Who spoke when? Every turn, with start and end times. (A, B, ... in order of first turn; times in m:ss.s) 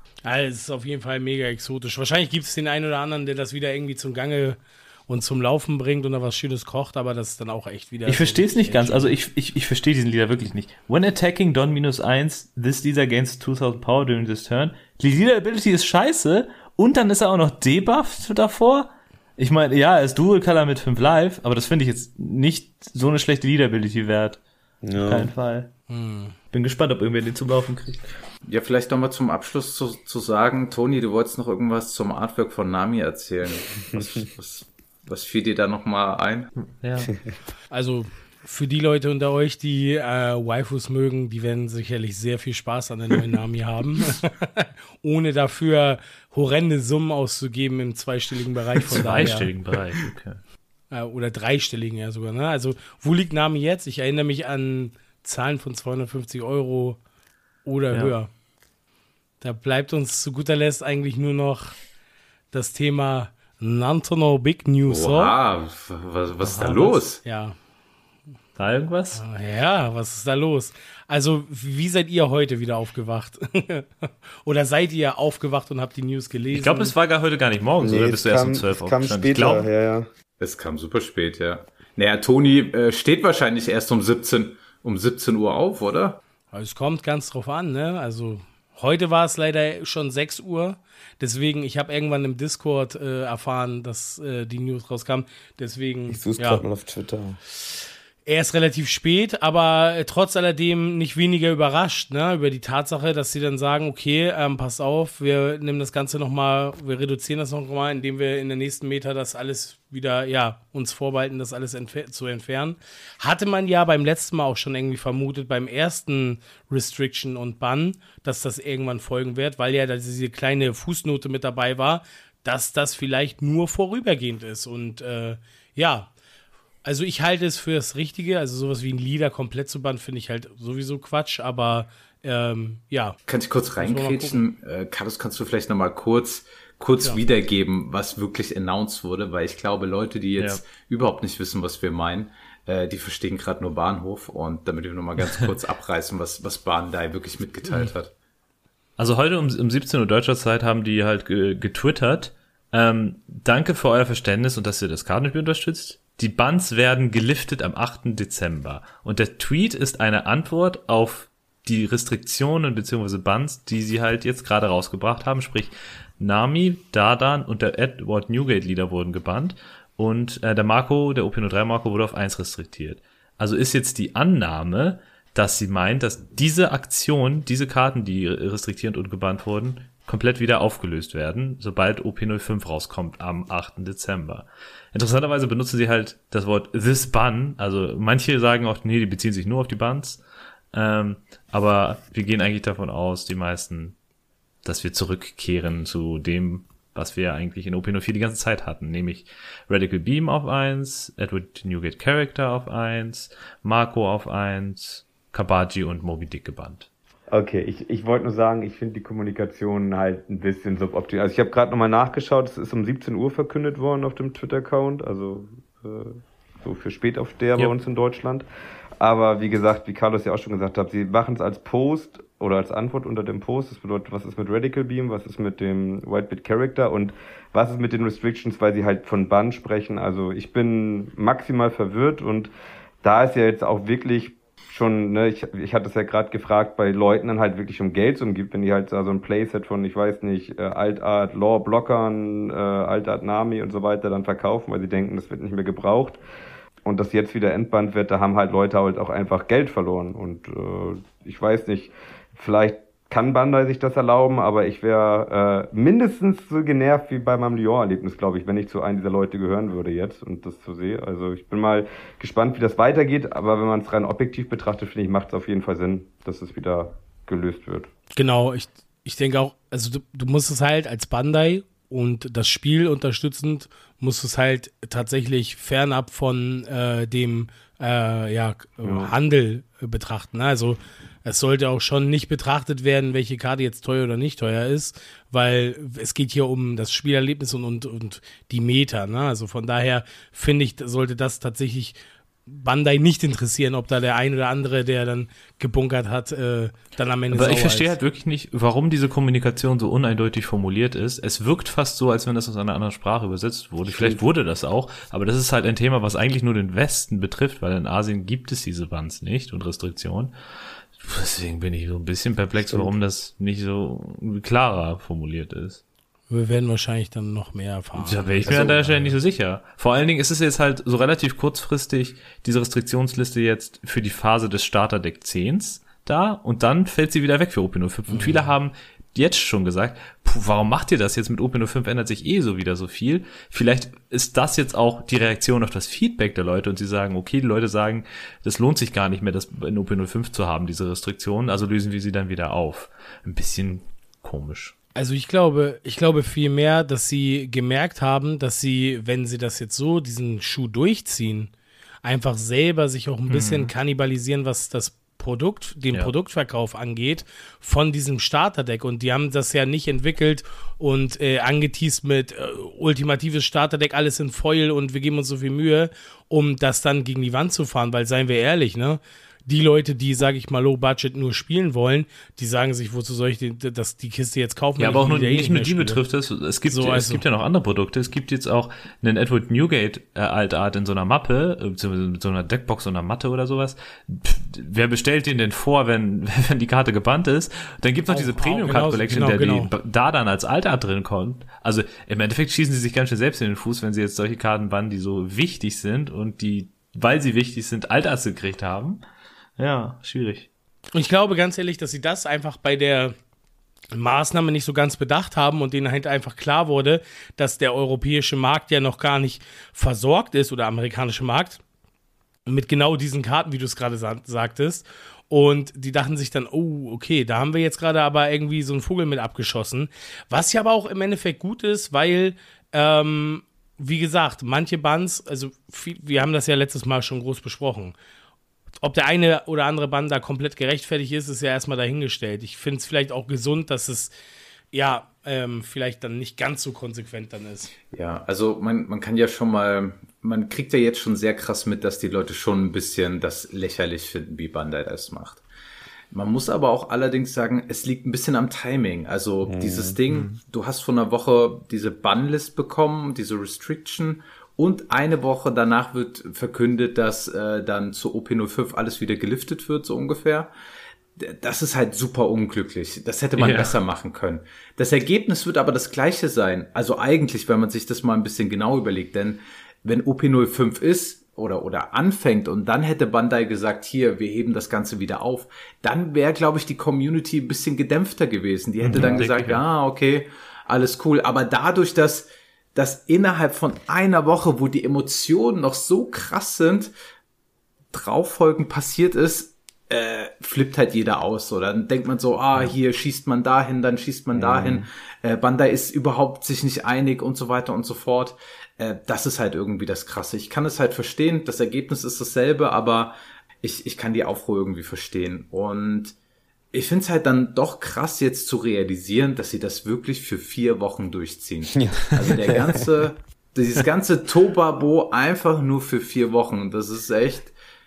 0:00.2-0:09.1 A
0:08.1-0:24.4 B
0:24.8-0:25.3 C
0:25.0-0:25.7 B
0:25.9-0:26.4 A
0:26.5-0:28.1 B
0:28.4-0:36.5 D
0:33.9-0:34.2 C
0:36.6-0:37.2 B
0:37.7-0:49.5 A
0:48.9-0:50.4 B
0:50.9-0:57.0 A
0:57.6-0:58.3 A
0:59.4-1:01.8 A
1:02.5-1:05.4 A
1:04.9-1:07.2 D
1:06.4-1:07.0 B
1:07.2-1:07.6 A
1:08.6-1:09.2 B
1:09.2-1:17.0 A
1:16.5-1:19.7 B
1:17.8-1:20.1 C
1:20.4-1:26.2 D
1:26.5-1:36.6 A
1:36.1-1:37.4 C
1:38.3-2:06.1 A
2:06.8-2:13.2 A
2:13.3-2:28.1 D
2:13.8-2:14.4 A
2:29.0-3:10.2 B
3:10.7-3:14.0 B
3:14.6-3:26.9 B
3:27.3-3:38.4 C
3:39.0-3:52.5 C
3:53.0-4:06.2 C
4:06.8-4:27.9 C
4:28.2-4:52.0 A
4:38.8-4:39.1 C
4:52.5-4:57.9 A
4:57.3-5:10.3 B
5:03.8-5:04.2 C
5:10.9-5:15.8 B
5:12.6-5:13.0 C
5:16.3-5:19.1 A
5:18.0-5:44.8 B
5:18.5-5:18.8 C
5:28.1-5:28.5 A
5:45.0-5:51.5 A
5:52.0-6:16.0 A
5:53.3-5:53.7 B
6:14.8-6:39.0 B
6:16.6-6:17.2 A
6:28.1-6:29.7 A
6:39.6-6:40.5 B
6:41.0-6:43.2 A
6:43.9-6:51.6 A
6:52.5-7:08.0 A
7:08.8-7:14.1 A
7:14.7-7:17.7 A
7:17.9-7:25.4 D
7:26.1-7:40.5 D
7:29.5-7:30.0 C
7:30.1-7:30.4 B
7:41.2-8:06.9 D
7:43.4-7:43.8 B
7:58.8-7:59.6 B
8:07.9-8:26.2 D
8:14.3-8:14.9 C
8:26.7-8:37.5 D
8:31.7-8:32.8 C